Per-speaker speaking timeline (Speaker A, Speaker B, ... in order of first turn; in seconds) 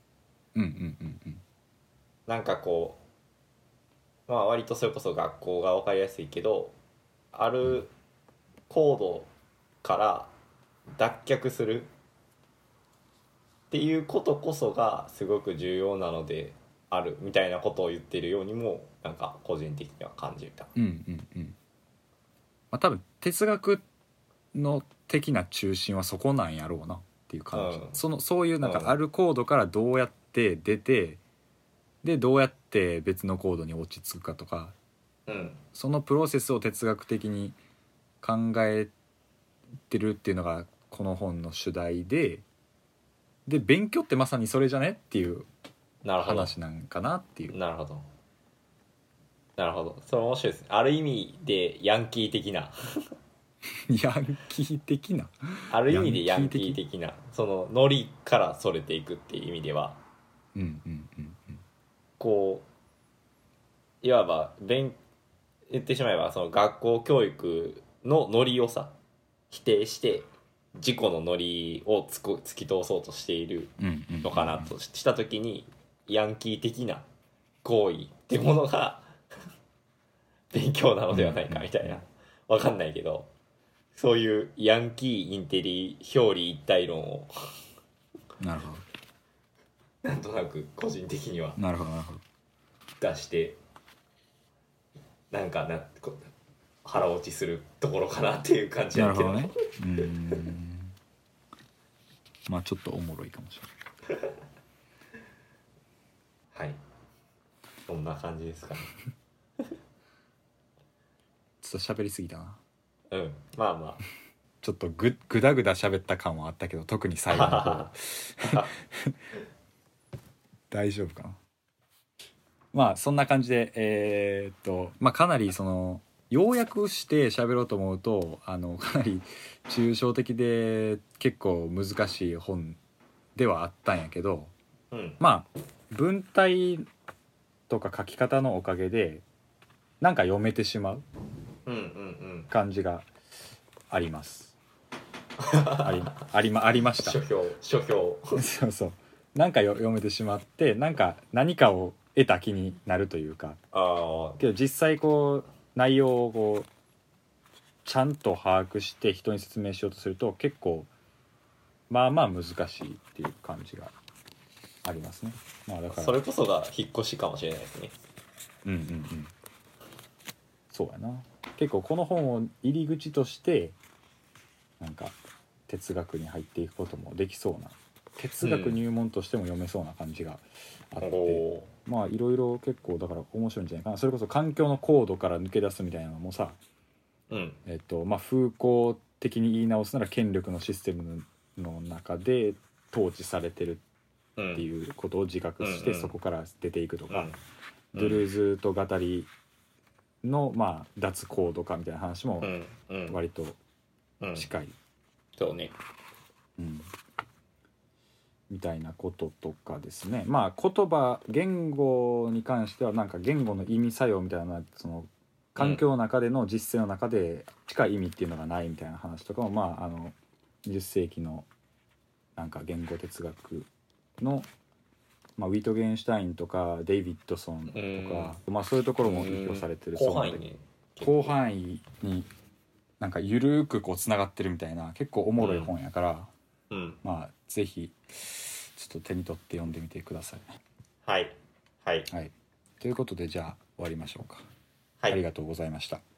Speaker A: 0.6-1.4, 20.8-21.6, 22.7-23.8, 24.5-31.2, 32.0-34.8, 35.8-37.6, 38.2-38.9, 39.9-42.4, 43.5-45.5, 46.2-47.6, 53.9-56.8, 60.5-61.6, 73.8-74.7, 81.1-82.0, 88.4-88.8, 91.6-92.2, 98.9-100.9, 102.5-103.7, 111.6-112.6, 114.6-119.2, 120.7-121.4, 122.7-132.8, 133.4-134.5, 135.2-136.9, 137.7-139.2, 140.0-141.1, 142.5-143.1, 143.9-144.5, 145.8-147.2, 148.3-153.6, 154.4-156.7, 157.8-160.9, 161.9-163.9, 164.8-166.2, 168.7-169.3, 170.7-173.8, 174.8-175.2, 175.7-186.6, 187.7-193.8, 194.6-197.3, 197.9-199.3, 200.2-202.5, 203.1-203.6, 204.4-204.8, 206.6-206.9, 208.5-221.5, 222.4-223.7, 224.2-224.5, 225.4-230.4, 231.0-232.3, 233.0-236.3, 237.0-240.5, 242.1-244.4, 245.1-246.0
Speaker B: 2.3-3.0, 4.3-6.8, 7.3-7.9, 8.7-9.3, 9.8-10.3, 10.9-11.9, 13.7-20.7, 27.6-28.0, 28.6-29.0, 35.3-35.6, 46.0-46.5, 47.5-48.0, 49.6-53.1, 55.7-60.0, 62.2-62.7, 64.0-65.0, 65.7-69.0, 69.5-77.1, 77.6-79.1, 80.5-83.3, 83.9-87.6, 90.0-91.6, 93.0-93.6, 95.3-96.3, 96.8-100.4, 106.5-106.8, 107.9-108.9, 113.1-114.0, 117.3-118.7, 134.9-135.2, 141.7-142.5, 145.4-146.2, 147.0-148.4, 153.7-154.4, 165.9-167.9, 178.4-178.8, 181.0-181.7, 187.3-187.6, 194.4-194.7, 195.6-196.1, 197.1-197.4, 197.9-198.2, 202.4-203.2, 204.2-204.5, 205.4-205.8, 227.7-228.3, 229.0-231.3, 235.4-235.7, 236.7-237.0, 241.1-242.1